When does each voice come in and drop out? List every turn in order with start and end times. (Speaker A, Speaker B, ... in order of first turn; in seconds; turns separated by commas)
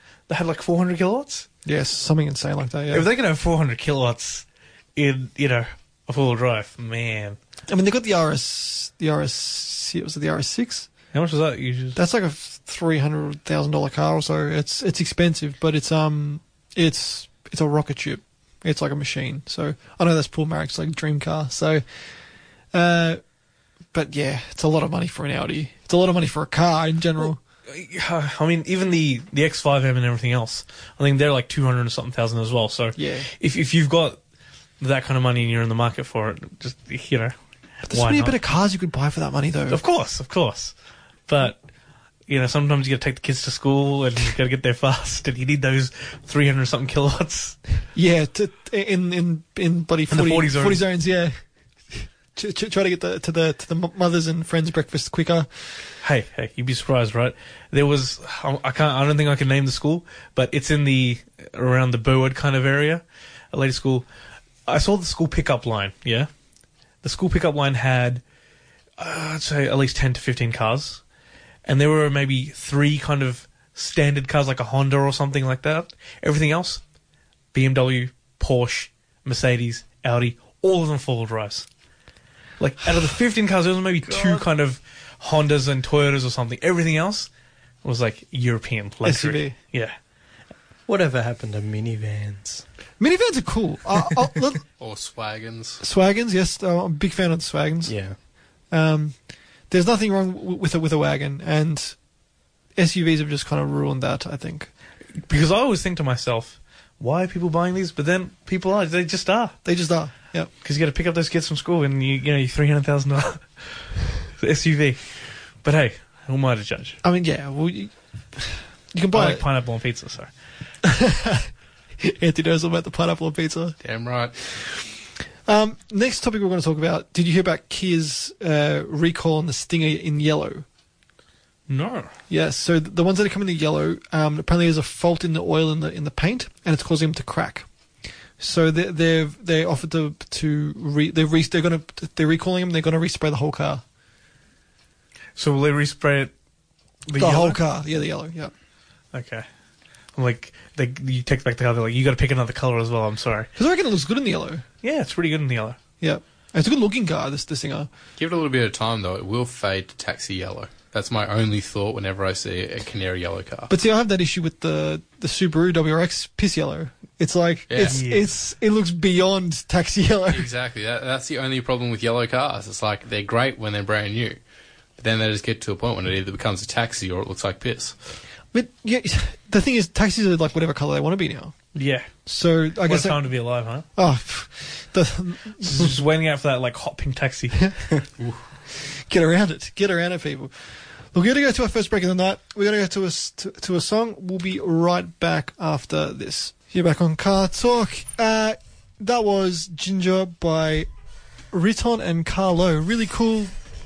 Speaker A: 0.3-1.5, Speaker B: 1.6-3.1, Speaker A: 2.9-7.4, Speaker B: 7.7-10.9, Speaker A: 11.1-12.0, Speaker B: 11.9-21.8, Speaker B: 22.7-23.2, Speaker B: 23.9-27.4, Speaker A: 27.7-34.2, Speaker B: 33.0-33.3, Speaker A: 34.8-37.4, Speaker B: 37.9-39.8, Speaker A: 37.9-38.4, Speaker A: 39.7-40.7, Speaker A: 41.3-41.6, Speaker A: 42.3-47.6, Speaker B: 47.9-51.4, Speaker A: 50.1-50.8, Speaker B: 51.9-55.5, Speaker A: 56.0-64.0, Speaker A: 64.7-66.3, Speaker A: 67.0-68.2, Speaker A: 69.0-71.0, Speaker A: 71.7-76.8, Speaker A: 77.5-81.7, Speaker A: 82.6-87.3, Speaker B: 84.1-84.4, Speaker A: 87.8-90.0, Speaker B: 89.0-89.5, Speaker C: 90.9-92.6, Speaker B: 93.0-94.6, Speaker D: 94.8-95.8, Speaker B: 95.8-97.9, Speaker C: 97.8-98.2, Speaker B: 98.7-99.1, Speaker B: 99.7-102.0, Speaker B: 102.8-104.7, Speaker A: 105.2-109.5, Speaker B: 109.6-110.5, Speaker A: 110.6-117.0, Speaker B: 117.0-119.5, Speaker A: 119.1-120.3, Speaker B: 120.8-121.5, Speaker B: 122.0-123.8, Speaker D: 123.8-124.4, Speaker B: 125.5-130.6, Speaker A: 131.7-132.1, Speaker B: 132.3-137.7, Speaker B: 138.4-143.8, Speaker A: 145.3-146.3, Speaker A: 147.1-147.6, Speaker B: 147.2-148.5, Speaker A: 149.1-149.4, Speaker A: 150.1-153.5, Speaker B: 153.6-154.6, Speaker A: 154.8-155.8, Speaker B: 156.0-157.9, Speaker D: 158.2-163.7, Speaker B: 163.7-170.5, Speaker D: 167.7-168.0, Speaker A: 167.8-168.3, Speaker D: 170.3-174.4, Speaker D: 175.0-178.1, Speaker B: 178.5-181.5, Speaker A: 181.7-182.1, Speaker B: 182.2-183.2, Speaker A: 182.8-183.8, Speaker B: 183.9-186.0, Speaker A: 185.6-187.7, Speaker B: 188.7-190.5, Speaker B: 191.1-200.9, Speaker B: 201.5-203.5